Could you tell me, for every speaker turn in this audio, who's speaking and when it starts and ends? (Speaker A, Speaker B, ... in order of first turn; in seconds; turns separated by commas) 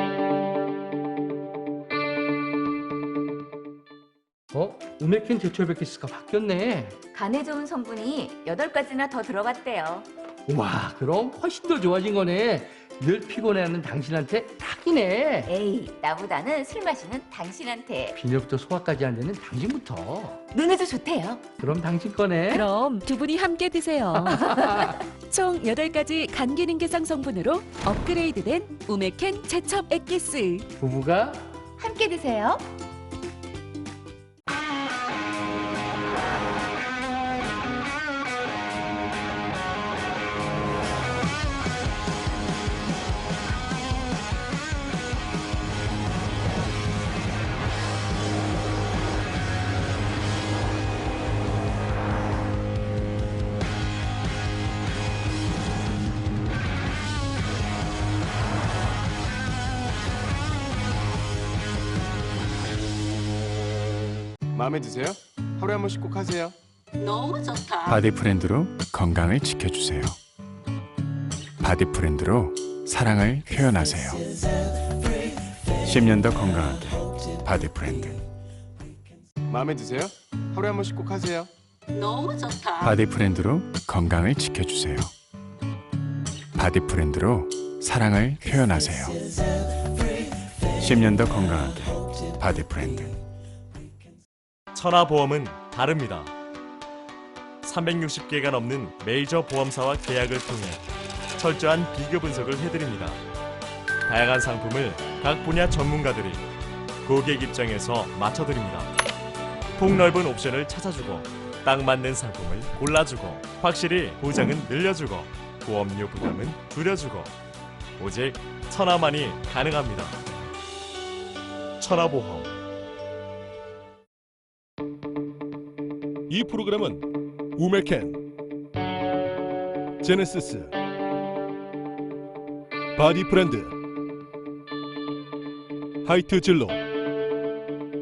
Speaker A: 4.5-6.9, Speaker B: 7.1-10.1, Speaker A: 10.5-15.4, Speaker B: 15.4-18.2, Speaker A: 18.2-20.4, Speaker B: 20.5-21.5, Speaker A: 21.6-22.6, Speaker C: 22.5-24.4, Speaker B: 24.4-24.6, Speaker C: 25.3-30.6, Speaker A: 30.8-31.4, Speaker B: 31.8-32.6, Speaker D: 64.5-66.5, Speaker E: 67.8-70.2, Speaker E: 71.6-74.3, Speaker E: 75.8-78.2, Speaker D: 79.5-81.5, Speaker E: 82.8-85.1, Speaker E: 86.5-89.3, Speaker E: 90.8-93.2, Speaker F: 94.7-96.3, Speaker F: 97.6-100.8, Speaker F: 101.4-103.2, Speaker F: 104.0-106.4, Speaker F: 107.0-108.9, Speaker F: 109.8-117.3, Speaker F: 118.0-120.2, Speaker F: 121.8-122.5, Speaker G: 126.3-128.2, Speaker G: 130.0-130.7, Speaker G: 132.9-133.7, Speaker G: 136.0-136.8